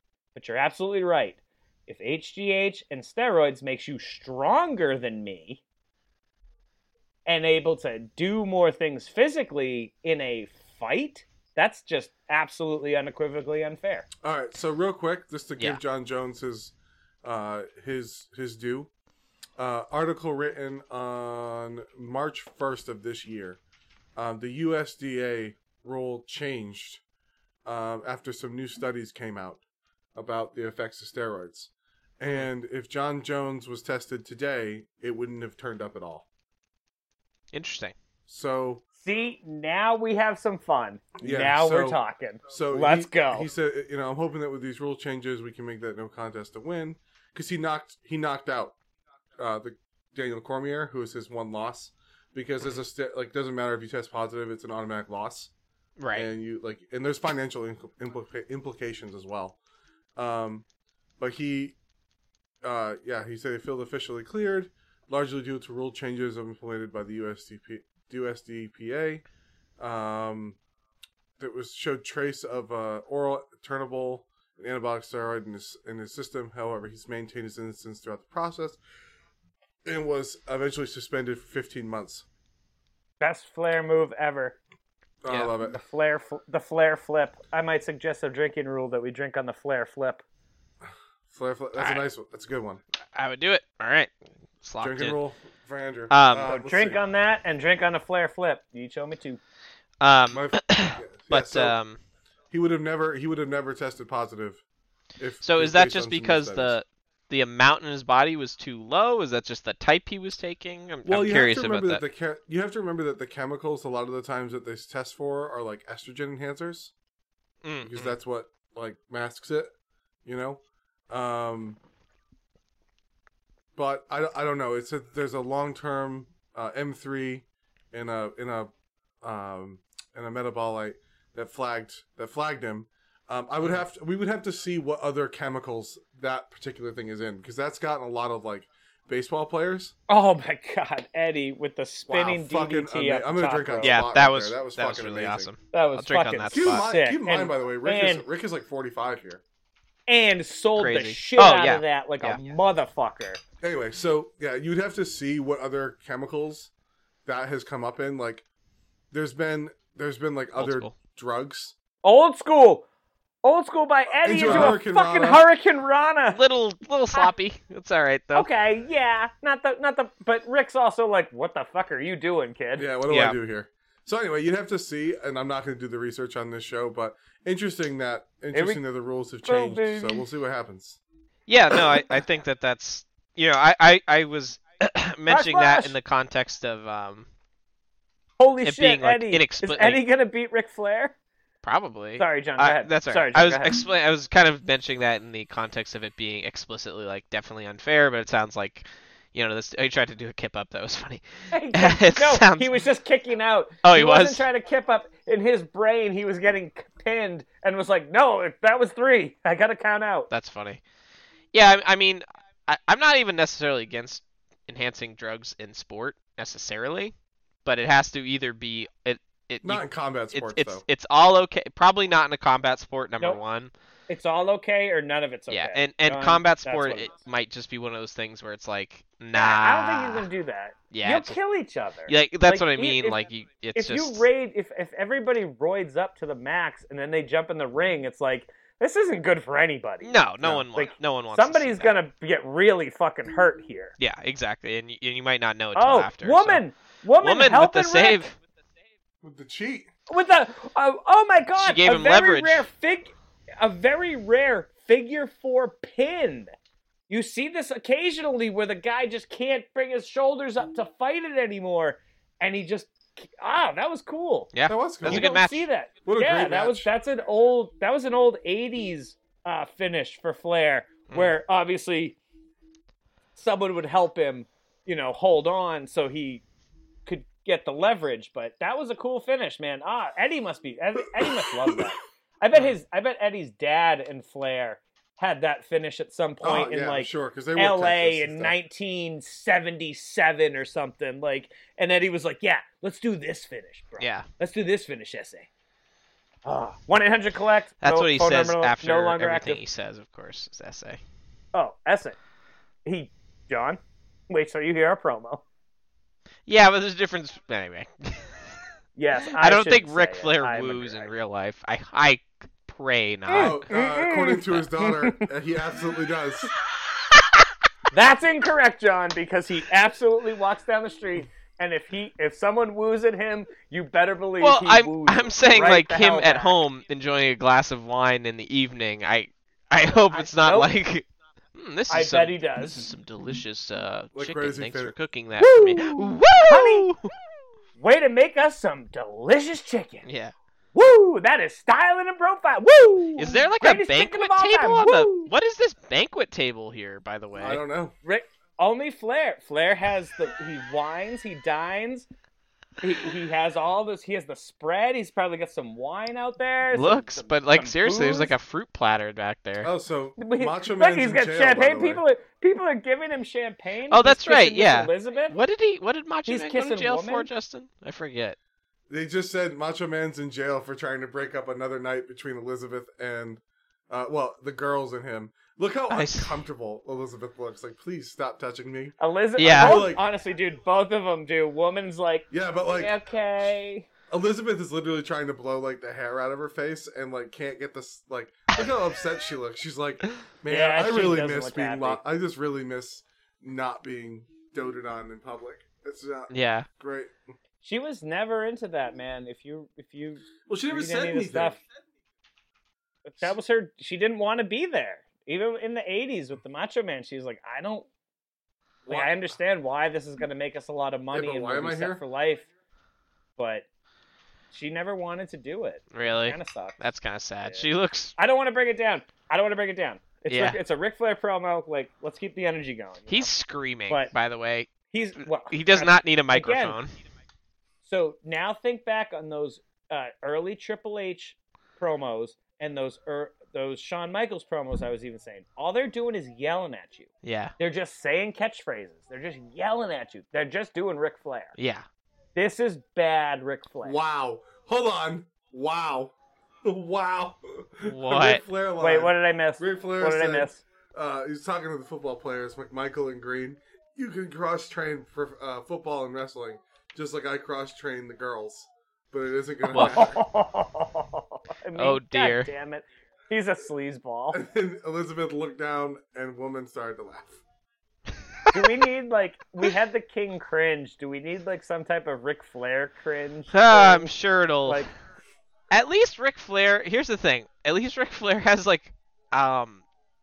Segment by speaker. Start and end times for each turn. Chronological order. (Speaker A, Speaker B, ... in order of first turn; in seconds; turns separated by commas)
Speaker A: 0.3-5.6, Speaker A: 7.2-14.1, Speaker B: 14.2-18.9, Speaker B: 19.6-23.6, Speaker B: 24.1-27.0, Speaker B: 27.6-29.6, Speaker B: 30.1-36.2, Speaker C: 37.5-37.9, Speaker B: 38.3-38.8, Speaker A: 39.0-43.5, Speaker B: 41.2-42.0, Speaker B: 42.5-48.7, Speaker B: 49.4-55.5, Speaker C: 56.0-56.3, Speaker B: 56.1-59.6, Speaker B: 60.1-60.6, Speaker B: 61.2-61.8, Speaker B: 62.6-69.2, Speaker B: 69.8-70.6, Speaker B: 71.4-78.8, Speaker B: 79.8-82.2, Speaker A: 83.2-84.6, Speaker B: 85.2-85.8, Speaker A: 85.7-90.2, Speaker B: 90.9-92.8, Speaker C: 91.8-92.0, Speaker C: 93.1-95.2, Speaker B: 94.8-97.0, Speaker C: 96.1-96.5, Speaker A: 96.4-99.4, Speaker C: 100.0-102.0, Speaker B: 100.3-101.8, Speaker B: 102.5-104.6, Speaker B: 105.2-106.8, Speaker C: 105.4-112.0, Speaker B: 111.0-116.9, Speaker C: 117.6-118.1, Speaker B: 117.8-119.7, Speaker B: 120.2-121.8, Speaker B: 123.8-128.7, Speaker B: 129.2-139.9, Speaker A: 140.1-143.9, Speaker B: 142.1-145.5, Speaker C: 143.8-146.8, Speaker A: 145.7-148.2, Speaker B: 146.5-149.4, Speaker A: 150.1-153.4, Speaker C: 150.8-152.4, Speaker B: 153.6-156.7, Speaker B: 157.2-158.4, Speaker B: 159.1-161.7, Speaker C: 160.6-160.9, Speaker A: 162.0-162.8, Speaker A: 163.4-166.4, Speaker B: 164.2-165.4, Speaker C: 164.5-164.7, Speaker C: 166.3-168.5, Speaker A: 168.3-172.8, Speaker B: 172.8-181.0, Speaker C: 173.1-173.3, Speaker A: 178.5-178.8, Speaker A: 179.4-180.2, Speaker C: 181.5-187.3, Speaker A: 185.3-185.9, Speaker A: 188.4-191.1, Speaker C: 188.6-190.0, Speaker C: 191.6-202.7, Speaker A: 192.2-193.8, Speaker A: 201.5-210.3, Speaker C: 203.8-204.4, Speaker C: 210.3-210.8, Speaker C: 211.5-217.1, Speaker C: 217.6-223.7, Speaker B: 219.6-220.8, Speaker A: 224.1-227.1, Speaker C: 225.5-230.2, Speaker A: 229.3-233.2, Speaker C: 230.9-231.4, Speaker C: 232.1-234.2, Speaker A: 233.7-240.2, Speaker C: 240.0-241.9, Speaker A: 240.7-243.9, Speaker C: 244.0-246.6, Speaker A: 245.7-248.3, Speaker C: 247.2-248.4, Speaker B: 249.2-249.9, Speaker A: 250.1-256.5, Speaker C: 251.6-252.7, Speaker A: 257.1-264.5, Speaker C: 264.5-265.7, Speaker B: 264.7-265.3, Speaker A: 265.0-272.2, Speaker B: 266.0-266.9, Speaker A: 273.4-276.4, Speaker A: 277.1-295.5, Speaker B: 281.2-281.8, Speaker B: 286.4-288.5, Speaker C: 294.0-294.2, Speaker A: 296.4-299.6, Speaker C: 297.8-301.0, Speaker A: 301.5-302.2, Speaker A: 302.8-305.4, Speaker C: 306.5-308.5, Speaker A: 308.9-311.1, Speaker C: 309.4-313.6, Speaker A: 313.3-315.3, Speaker B: 313.3-316.5, Speaker C: 317.2-317.4, Speaker A: 317.9-326.6, Speaker C: 324.4-337.1, Speaker A: 330.1-330.7, Speaker A: 331.9-332.9, Speaker B: 334.1-334.9, Speaker A: 335.4-336.9, Speaker A: 337.8-340.1, Speaker C: 340.1-340.3, Speaker A: 340.7-345.3, Speaker C: 343.2-347.6, Speaker B: 347.4-347.9, Speaker A: 348.0-352.1, Speaker A: 352.8-358.3, Speaker C: 356.7-359.7, Speaker B: 359.6-362.0, Speaker A: 360.2-365.4, Speaker C: 363.9-368.4, Speaker A: 366.3-367.3, Speaker B: 368.9-380.0, Speaker C: 375.9-376.3, Speaker A: 379.0-383.9, Speaker C: 379.4-379.9, Speaker B: 382.3-382.9, Speaker B: 384.1-397.1, Speaker A: 390.5-392.0, Speaker C: 396.3-396.7, Speaker A: 397.6-401.6, Speaker B: 400.4-401.6, Speaker A: 403.0-407.9, Speaker B: 408.9-409.2, Speaker A: 408.9-412.5, Speaker B: 411.1-412.0, Speaker A: 413.4-413.6, Speaker A: 414.5-416.8, Speaker C: 415.9-418.1, Speaker A: 417.4-423.3, Speaker C: 420.3-420.6, Speaker C: 423.1-424.7, Speaker A: 424.9-426.8, Speaker C: 425.5-426.9, Speaker A: 427.8-441.5, Speaker C: 437.2-437.5, Speaker C: 441.6-441.9, Speaker A: 442.3-444.0, Speaker B: 443.8-460.2, Speaker C: 447.8-448.4, Speaker A: 448.8-450.6, Speaker A: 459.6-464.4, Speaker C: 459.7-460.0, Speaker C: 461.8-462.5, Speaker B: 464.3-467.4, Speaker C: 468.5-468.9, Speaker A: 468.5-474.1, Speaker C: 473.5-474.9, Speaker C: 475.7-479.8